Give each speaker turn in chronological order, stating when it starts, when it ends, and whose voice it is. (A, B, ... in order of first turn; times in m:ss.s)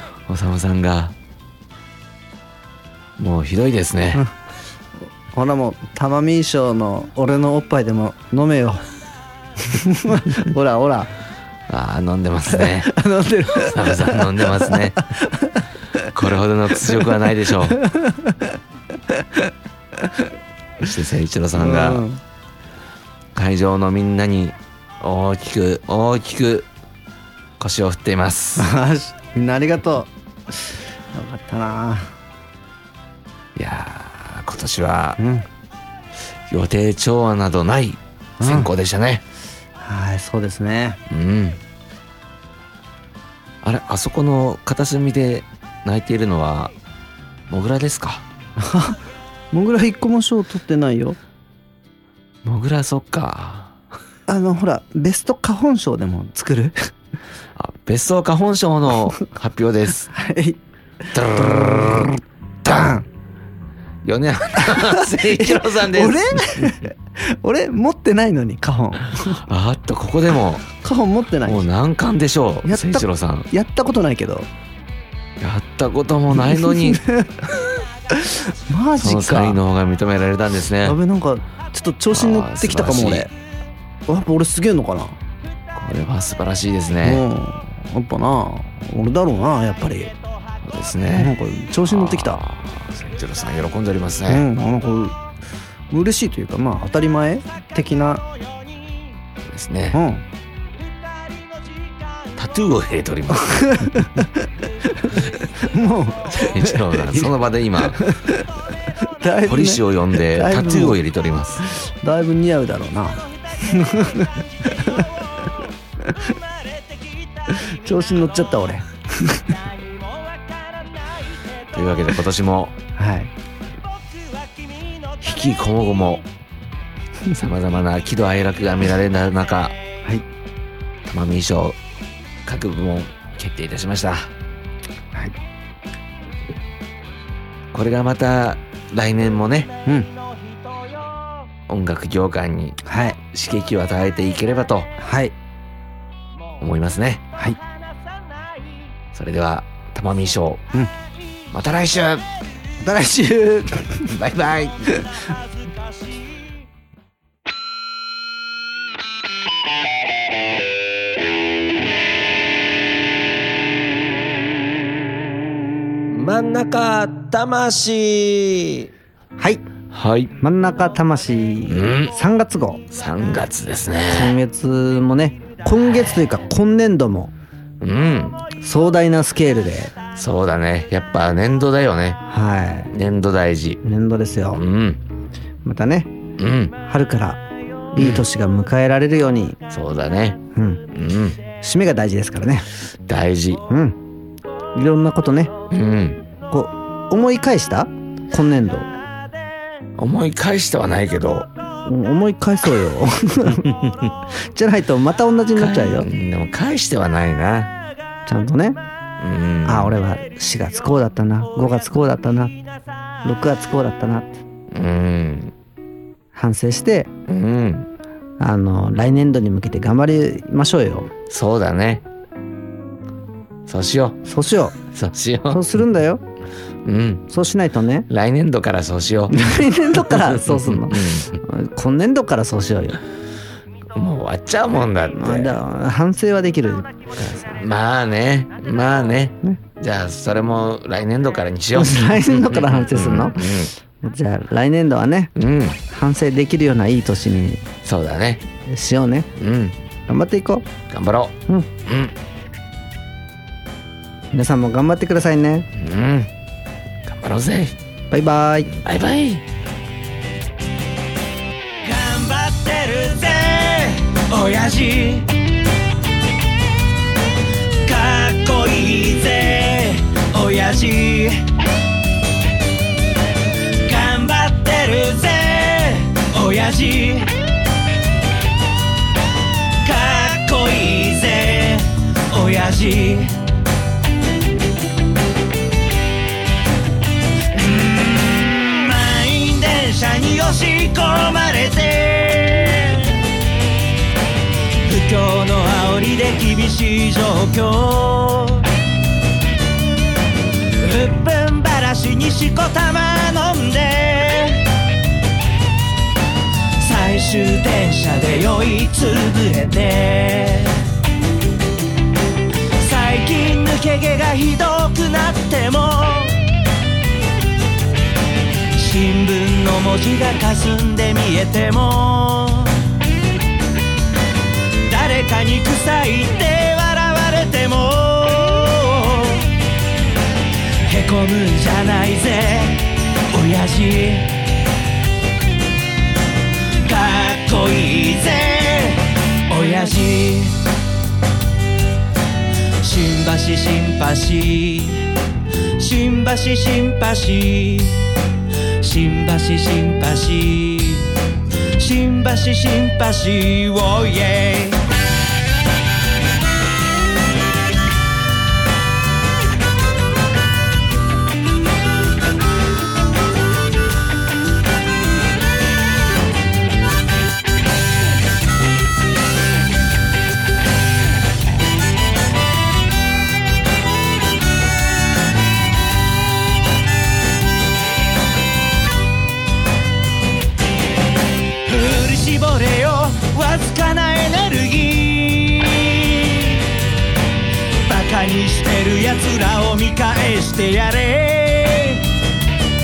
0:00.3-0:01.2 A
0:03.2-0:04.3 A
0:05.3-0:08.9 B
0:09.6-0:11.1 B
0:11.7-0:12.9 A
0:12.5-0:16.1 B
0:13.5-0:15.1 A
0:16.1-0:17.8 A
0:17.7-0:18.5 B
0:19.1-0:19.5 B
0:20.0-0:20.2 B
0:20.8-0:22.0 A
0:21.5-0:22.2 B
0:23.3-0:26.7 A
0:27.6-0:28.7 A
0:28.6-0:32.1 B
0:33.6-0:35.2 A
0:35.2-0:35.5 B
0:36.5-0:39.2 A
0:38.4-0:38.7 B
0:39.8-0:41.0 B
0:41.1-0:41.6 A
0:43.6-0:46.7 A
0:47.5-0:48.2 A
0:48.6-0:49.0 B
0:49.5-0:51.2 B
0:52.4-0:53.8 A
0:54.3-0:56.9 B
0:57.6-1:00.1 A
1:00.1-1:00.6 B
1:01.1-1:02.1 A
1:01.2-1:03.0 B
1:04.0-1:06.8 A
1:04.6-1:09.4 B
1:09.2-1:10.6 A
1:10.7-1:11.7 B
1:11.4-1:13.5 A
1:12.6-1:14.5 B
1:15.4-1:17.6 A
1:16.4-1:17.5 B
1:18.1-1:19.6 B
1:19.0-1:21.0 A
1:20.8-1:23.3 B
1:22.1-1:23.3 A
1:24.1-1:25.2 B
1:25.8-1:27.2 A
1:27.0-1:30.1 B
1:30.6-1:34.5 A
1:31.1-1:32.4 B
1:34.3-1:35.2 B
1:35.9-1:38.2 B
1:39.5-1:40.0 A
1:39.9-1:40.2 B
1:42.4-1:44.0 A
1:43.3-1:47.3 B
1:46.4-1:48.0 A
1:47.8-1:51.0 B
1:49.5-1:51.6 A
1:51.6-1:55.1 B
1:56.0-1:56.3 B
1:57.5-1:59.5 B
2:01.7-2:02.8 A
2:03.0-2:03.3 B
2:05.2-2:06.2 A
2:07.3-2:09.8 A
2:11.1-2:11.8 A
2:12.4-2:14.3 A
2:17.7-2:19.7 A
2:21.7-2:24.9 A
2:22.8-2:23.2 B
2:25.0-2:25.4 B
2:26.6-2:27.2 A
2:29.1-2:30.7 A
2:31.5-2:32.3 A
2:32.8-2:34.1 B
2:34.1-2:35.0 A
2:34.9-2:35.2 B
2:46.1-2:48.9 C
2:49.4-2:49.6 B
2:49.9-2:50.3 A
2:50.4-2:52.8 B
2:51.7-2:52.1 A
2:52.9-2:54.4 A
2:54.1-2:57.3 B
2:57.8-2:58.4 A
2:58.6-2:59.9 B
3:00.2-3:02.2 A
3:02.3-3:02.9 B
3:02.9-3:03.8 A
3:03.8-3:04.6 B
3:04.5-3:05.0 A
3:05.6-3:06.1 B
3:06.4-3:06.8 A
3:06.8-3:07.4 B
3:07.9-3:08.2 A
3:07.9-3:09.6 B
3:09.7-3:10.4 A
3:10.6-3:10.8 B
3:10.9-3:11.4 A
3:11.6-3:12.7 B
3:13.1-3:13.6 A
3:13.7-3:14.0 B
3:14.8-3:15.5 B
3:15.7-3:16.2 A
3:16.5-3:18.9 B
3:20.0-3:21.5 A
3:21.8-3:23.7 B
3:23.6-3:24.2 A
3:24.5-3:26.1 B
3:25.6-3:27.7 A
3:28.3-3:28.8 B
3:29.2-3:30.0 A
3:29.6-3:32.6 B
3:33.2-3:34.4 B
3:34.7-3:35.6 A
3:36.4-3:37.1 B
3:37.3-3:37.9 A
3:38.4-3:41.1 B
3:41.3-3:42.0 A
3:43.7-3:44.2 A
3:44.3-3:44.8 B
3:44.8-3:45.6 A
3:45.5-3:46.2 B
3:46.8-3:47.3 A
3:47.3-3:48.1 B
3:48.1-3:51.3 A
3:49.3-3:53.0 B
3:54.0-3:55.6 A
3:55.2-3:56.9 B
3:57.2-4:03.7 A
4:01.7-4:05.3 B
4:05.4-4:05.8 A
4:05.9-4:07.6 B
4:07.8-4:08.4 A
4:08.7-4:09.3 B
4:09.4-4:09.8 A
4:10.1-4:10.7 B
4:10.9-4:12.1 A
4:14.3-4:15.7 B
4:15.8-4:16.3 A
4:17.0-4:17.8 A
4:18.1-4:18.7 B
4:18.8-4:19.4 A
4:21.8-4:25.3 C
4:27.8-4:31.5 C
4:33.8-4:37.3 C
4:39.8-4:43.4 C
4:47.5-4:53.2 C
4:54.8-4:58.7 C
5:00.8-5:04.7 C
5:06.8-5:10.9 C
5:12.8-5:16.4 C
5:18.8-5:22.8 C
5:24.9-5:29.5 C
5:30.9-5:34.3 C
5:36.8-5:40.6 C
5:42.8-5:45.1 C
5:45.8-5:48.1 C
5:48.8-5:51.1 C
5:51.8-5:54.8 C
6:21.7-6:26.7 C
6:27.8-6:32.0 C